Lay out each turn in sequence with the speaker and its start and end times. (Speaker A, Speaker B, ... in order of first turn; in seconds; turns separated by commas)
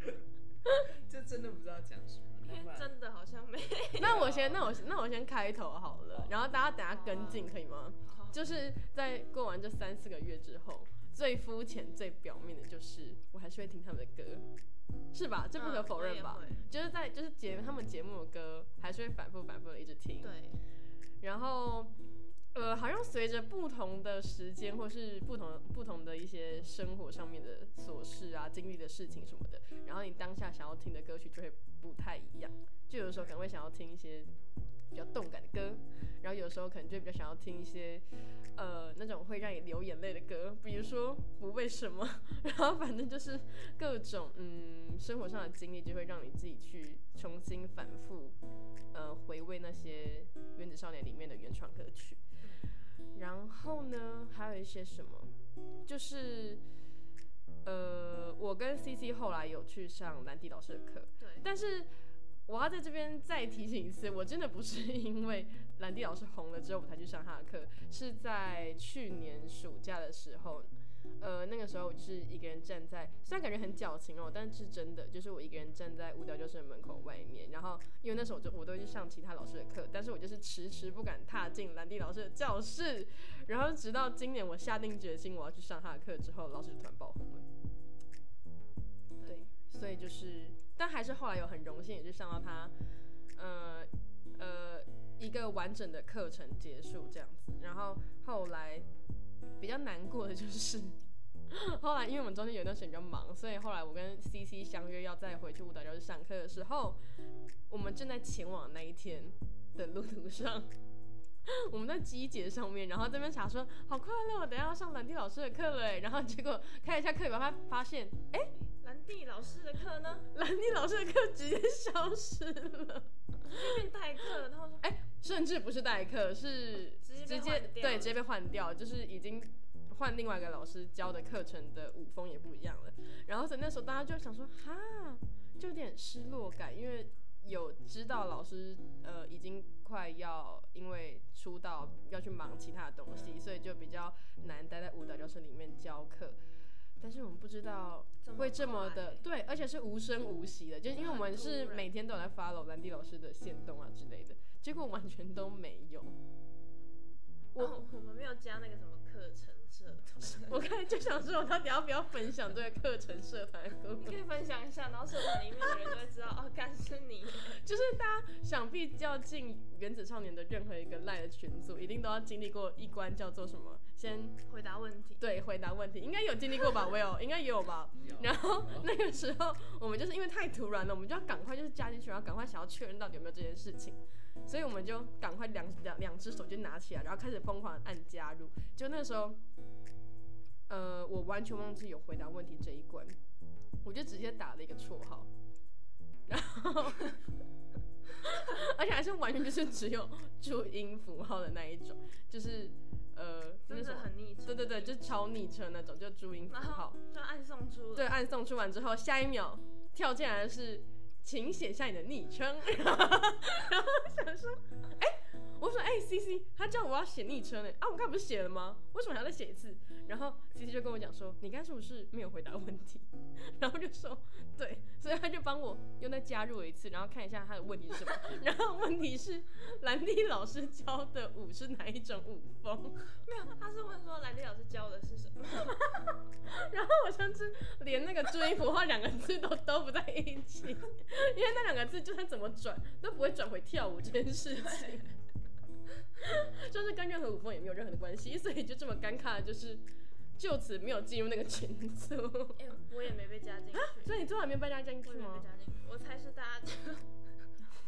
Speaker A: 0.9-2.9, Speaker B: 2.4-4.2, Speaker A: 4.0-4.8, Speaker C: 4.0-14.5, Speaker B: 6.9-7.5, Speaker B: 8.0-8.4, Speaker C: 15.1-20.3, Speaker B: 15.6-16.6, Speaker A: 16.4-16.7, Speaker B: 20.2-20.6, Speaker C: 21.2-21.9, Speaker C: 22.5-34.3, Speaker C: 34.9-48.4, Speaker C: 48.9-52.2, Speaker C: 53.1-55.3, Speaker C: 55.9-56.6, Speaker C: 57.6-61.9, Speaker C: 62.5-70.7, Speaker C: 71.2-87.5, Speaker C: 89.2-92.7, Speaker C: 93.3-98.9, Speaker C: 99.6-101.0, Speaker C: 101.5-107.0, Speaker C: 107.7-110.7, Speaker C: 111.5-118.5, Speaker B: 118.8-120.3, Speaker C: 120.3-123.8, Speaker B: 123.4-124.8, Speaker C: 124.8-146.4, Speaker B: 127.0-128.2, Speaker C: 147.0-156.2, Speaker B: 148.2-149.3, Speaker B: 151.0-151.9, Speaker C: 157.5-157.8, Speaker B: 157.6-160.7, Speaker C: 160.5-164.2, Speaker B: 164.0-167.6, Speaker C: 167.5-174.4, Speaker B: 174.5-175.2, Speaker C: 175.2-189.4, Speaker A: 178.0-178.9, Speaker C: 190.7-193.2, Speaker C: 193.8-195.3, Speaker C: 196.3-197.1, Speaker C: 198.2-207.0, Speaker B: 203.7-205.3, Speaker B: 206.5-208.1, Speaker C: 207.9-233.1, Speaker B: 233.2-236.2, Speaker C: 236.5-245.1, Speaker B: 244.7-245.0, Speaker C: 246.2-249.8, Speaker C: 250.4-252.6, Speaker B: 252.6-254.2, Speaker C: 253.9-255.5, Speaker B: 255.0-257.1